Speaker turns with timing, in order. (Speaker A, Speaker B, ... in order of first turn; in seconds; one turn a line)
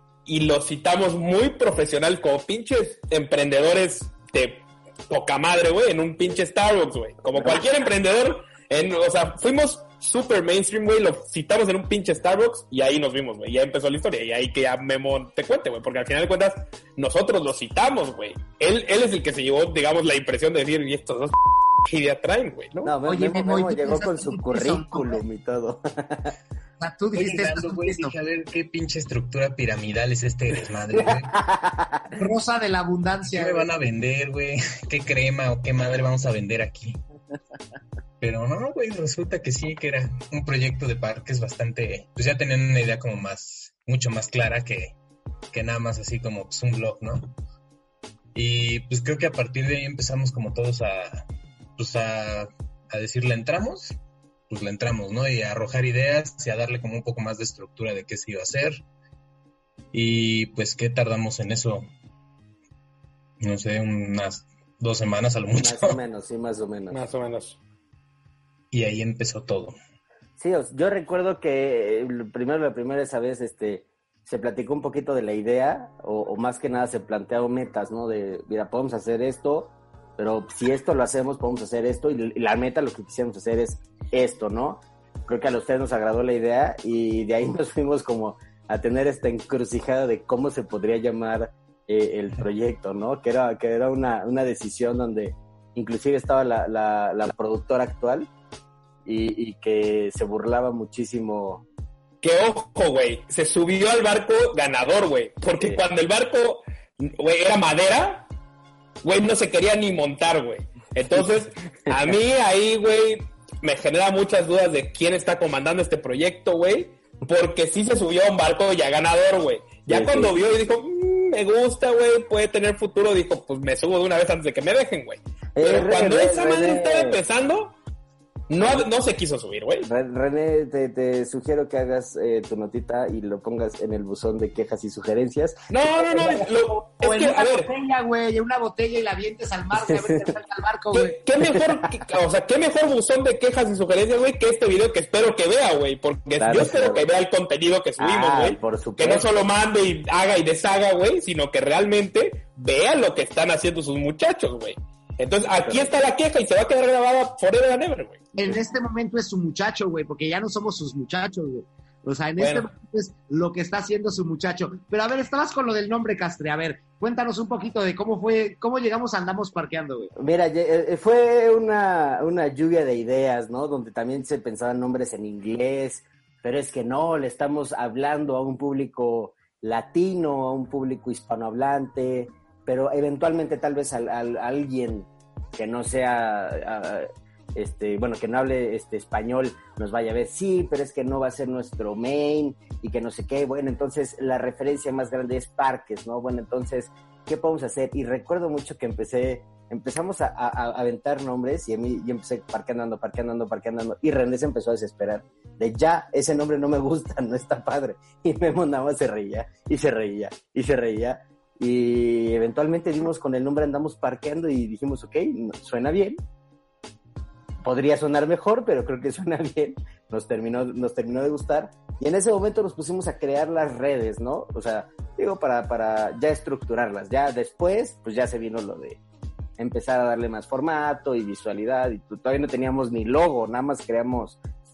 Speaker A: 0.2-21.3
Speaker B: 7.3-7.7
Speaker A: 21.8-22.9
Speaker B: 22.8-26.3
Speaker C: 23.1-25.2
Speaker C: 26.8-28.1
Speaker D: 27.1-31.3
Speaker B: 30.9-32.0
Speaker C: 32.2-33.7
Speaker D: 33.3-37.0
Speaker D: 38.2-45.0
Speaker D: 45.5-47.3
Speaker D: 48.3-51.2
Speaker D: 51.8-54.0
Speaker D: 54.5-58.8
Speaker D: 59.9-61.9
Speaker D: 63.4-66.0
Speaker B: 65.5-67.0
Speaker A: 66.9-67.6
Speaker D: 68.7-69.7
Speaker B: 70.4-98.3
Speaker B: 99.0-101.6
Speaker A: 102.2-108.2
Speaker A: 109.0-127.7
Speaker B: 111.2-112.1
Speaker B: 119.9-120.3
Speaker B: 125.6-127.2
Speaker A: 128.5-129.9
Speaker B: 128.6-128.8
Speaker B: 129.8-136.5
Speaker A: 135.7-137.7
Speaker C: 136.9-141.2
Speaker B: 139.8-140.2
Speaker A: 140.9-158.2
Speaker B: 141.4-141.8
Speaker B: 146.4-147.1
Speaker B: 148.0-149.3
Speaker B: 155.7-155.9
Speaker C: 158.3-170.1
Speaker A: 162.4-162.7
Speaker B: 170.2-216.2
Speaker B: 217.6-229.0
Speaker B: 229.6-234.4